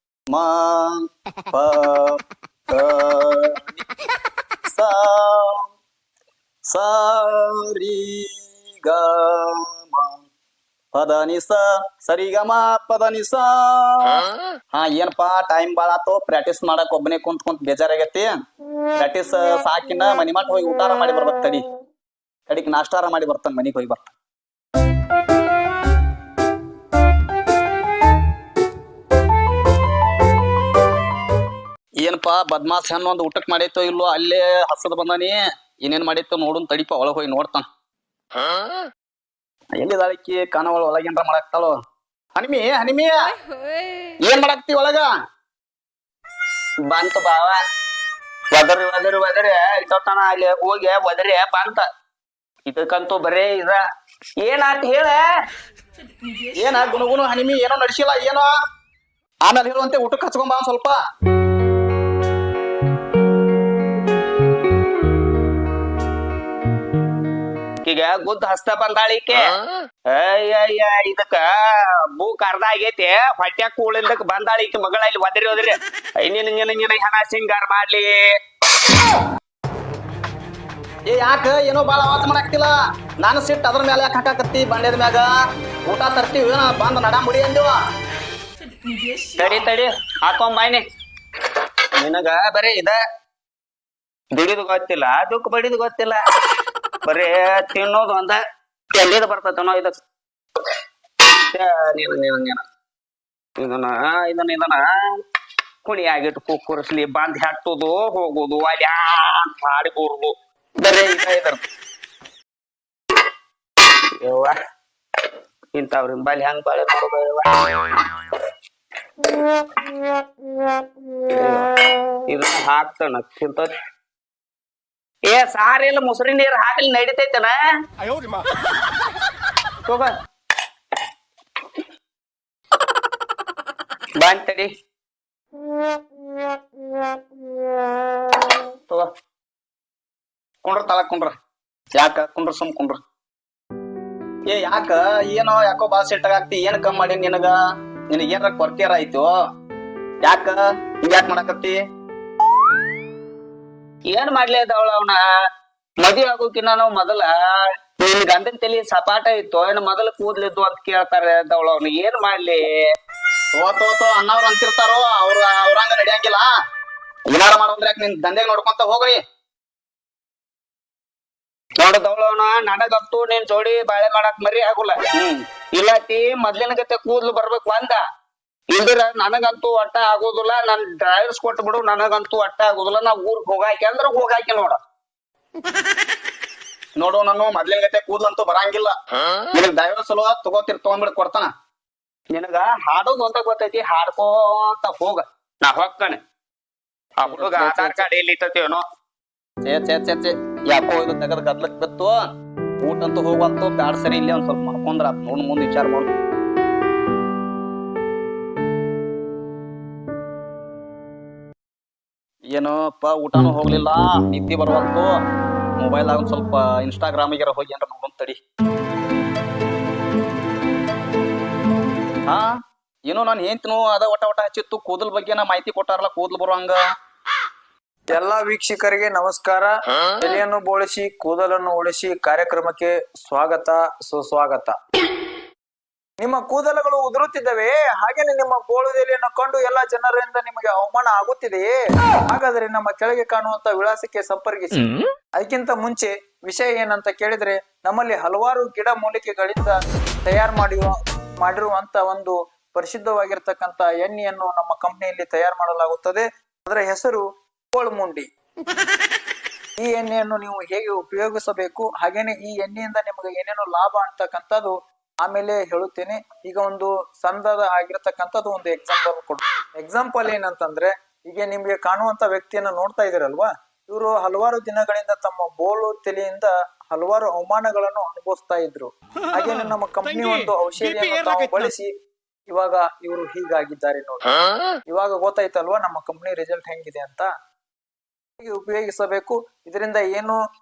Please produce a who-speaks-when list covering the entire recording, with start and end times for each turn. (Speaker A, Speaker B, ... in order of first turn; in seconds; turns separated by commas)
Speaker A: 0.3-1.0, Speaker A: 1.5-2.2, Speaker A: 2.7-3.8, Speaker A: 4.7-5.6, Speaker A: 6.7-10.2, Speaker A: 10.9-18.3, Speaker A: 19.0-21.7, Speaker A: 22.5-24.1, Speaker A: 32.0-37.6, Speaker A: 39.8-41.7, Speaker A: 42.4-43.4, Speaker A: 44.2-45.1, Speaker B: 46.9-47.6, Speaker B: 48.5-51.8, Speaker B: 52.6-53.8, Speaker B: 54.4-55.2, Speaker A: 56.6-58.5, Speaker A: 59.4-61.0, Speaker B: 67.8-69.5, Speaker B: 70.1-78.2, Speaker A: 81.0-85.3, Speaker A: 85.8-87.7, Speaker B: 89.3-90.8, Speaker B: 92.0-93.0, Speaker B: 94.3-96.2, Speaker B: 97.0-98.4, Speaker B: 98.9-100.0, Speaker B: 101.5-102.6, Speaker B: 103.6-104.8, Speaker B: 105.8-111.6, Speaker B: 114.2-114.5, Speaker B: 115.7-118.1, Speaker B: 121.3-121.7, Speaker B: 122.3-123.7, Speaker B: 125.3-127.6, Speaker B: 134.2-134.7, Speaker A: 140.6-141.3, Speaker A: 142.0-143.0, Speaker A: 144.5-147.5, Speaker A: 148.1-149.3, Speaker A: 150.2-151.8, Speaker B: 154.1-155.2, Speaker B: 156.0-157.3, Speaker B: 158.0-162.7, Speaker A: 163.5-166.5, Speaker A: 167.3-169.2, Speaker B: 171.8-175.0, Speaker A: 175.1-175.4, Speaker B: 175.7-178.0, Speaker B: 178.7-184.8, Speaker A: 187.0-188.9, Speaker A: 189.5-191.5, Speaker B: 192.3-196.2, Speaker B: 197.2-198.8, Speaker A: 197.2-198.0, Speaker A: 199.6-202.2, Speaker A: 202.8-206.1, Speaker A: 212.5-215.1, Speaker A: 215.8-218.4, Speaker A: 223.1-226.8, Speaker C: 228.1-234.7, Speaker C: 236.2-241.7, Speaker C: 242.3-249.7, Speaker C: 250.2-257.2, Speaker C: 257.7-258.2, Speaker C: 259.8-281.9, Speaker C: 282.5-284.4, Speaker C: 284.9-287.3, Speaker C: 288.4-290.4